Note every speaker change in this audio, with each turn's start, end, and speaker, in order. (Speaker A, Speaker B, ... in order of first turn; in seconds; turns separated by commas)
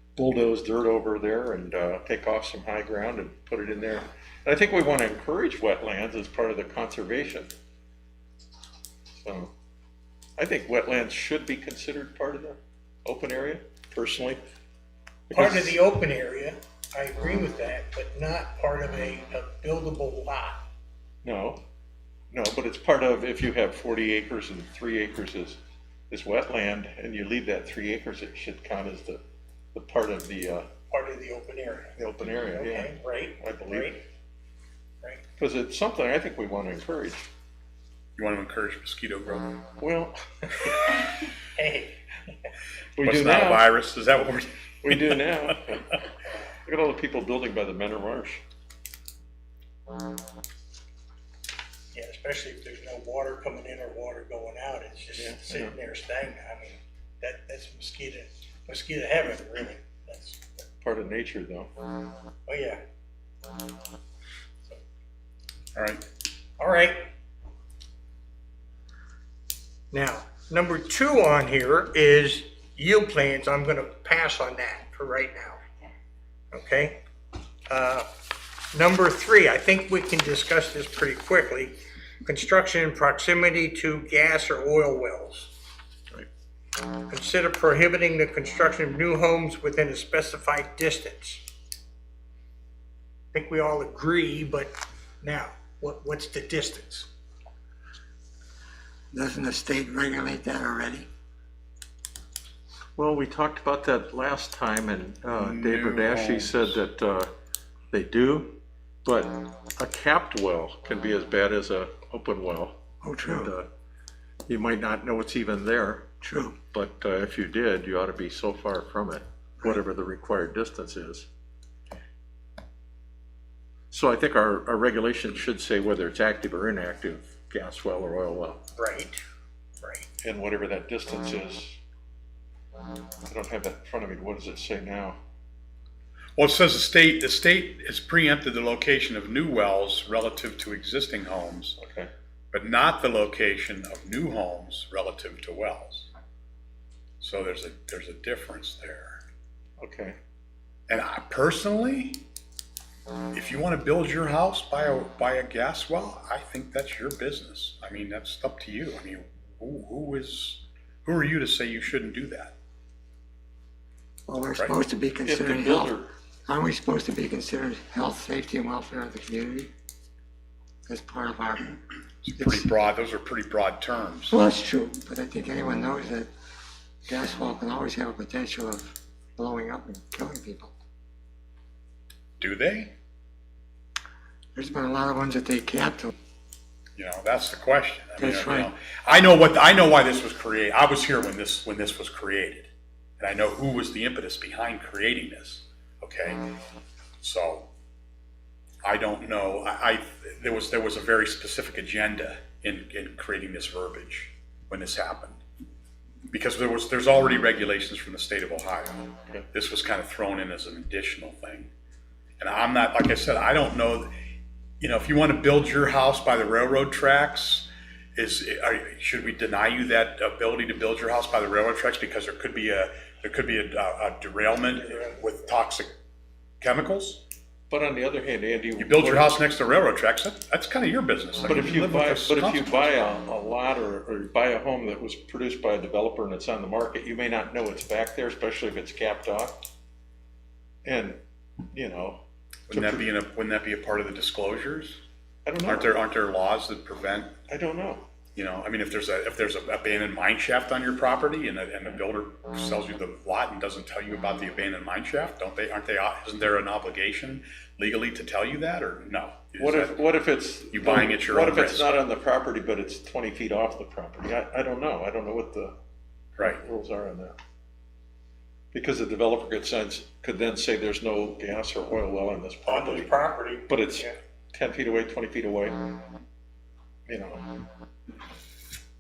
Speaker A: 0.2-7.5, Speaker A: 9.2-9.5, Speaker A: 10.4-14.4, Speaker A: 15.3-15.8, Speaker B: 15.3-20.6, Speaker A: 21.2-21.6, Speaker A: 22.3-25.6, Speaker A: 26.1-29.2, Speaker A: 29.7-30.7, Speaker B: 30.9-34.0, Speaker A: 32.0-34.0, Speaker A: 35.4-37.3, Speaker C: 38.2-39.6, Speaker A: 39.8-40.8, Speaker B: 41.6-42.0, Speaker A: 43.0-43.7, Speaker C: 43.0-45.3, Speaker A: 44.8-46.0, Speaker A: 46.7-48.4, Speaker B: 51.9-60.4, Speaker A: 55.1-55.7, Speaker A: 60.8-61.7, Speaker B: 62.5-62.8, Speaker C: 65.8-66.0, Speaker B: 66.6-67.1, Speaker B: 69.9-75.6, Speaker B: 76.5-77.0, Speaker B: 77.7-78.1, Speaker B: 78.7-85.5, Speaker B: 87.1-91.4, Speaker B: 93.3-97.1, Speaker D: 99.1-101.1, Speaker A: 103.0-107.3, Speaker C: 105.3-106.8, Speaker A: 107.9-113.7, Speaker D: 113.0-113.5, Speaker A: 114.5-116.1, Speaker D: 116.2-116.6, Speaker A: 116.7-121.3, Speaker A: 123.9-128.6, Speaker B: 128.8-129.2, Speaker B: 129.8-130.1, Speaker A: 130.2-131.8, Speaker A: 133.2-135.2, Speaker C: 136.4-141.8, Speaker A: 141.8-142.1, Speaker C: 142.5-146.1, Speaker C: 147.2-149.2, Speaker A: 149.8-150.2, Speaker C: 150.9-152.2, Speaker C: 153.3-162.5, Speaker D: 164.3-165.9, Speaker A: 165.2-166.1, Speaker D: 166.5-169.7, Speaker D: 170.9-171.7, Speaker C: 172.2-174.4, Speaker D: 172.4-172.6, Speaker D: 174.3-176.3, Speaker D: 177.1-180.7, Speaker C: 182.4-182.9, Speaker D: 184.6-186.1, Speaker C: 187.0-196.6, Speaker D: 188.2-188.7, Speaker C: 197.2-197.7, Speaker C: 198.8-205.4, Speaker C: 206.3-211.7, Speaker C: 212.4-214.1, Speaker C: 214.8-225.9, Speaker C: 226.6-227.2, Speaker A: 227.7-229.4, Speaker C: 228.8-232.8, Speaker A: 231.5-239.7, Speaker A: 240.8-241.2, Speaker A: 241.7-243.1, Speaker C: 242.7-245.0, Speaker A: 245.4-246.0, Speaker C: 245.7-247.3, Speaker A: 247.5-248.1, Speaker C: 248.3-260.0, Speaker A: 259.6-265.8, Speaker C: 260.7-261.9, Speaker A: 266.4-267.4, Speaker A: 268.7-273.1, Speaker B: 272.7-274.1, Speaker A: 273.7-276.0, Speaker A: 277.1-277.7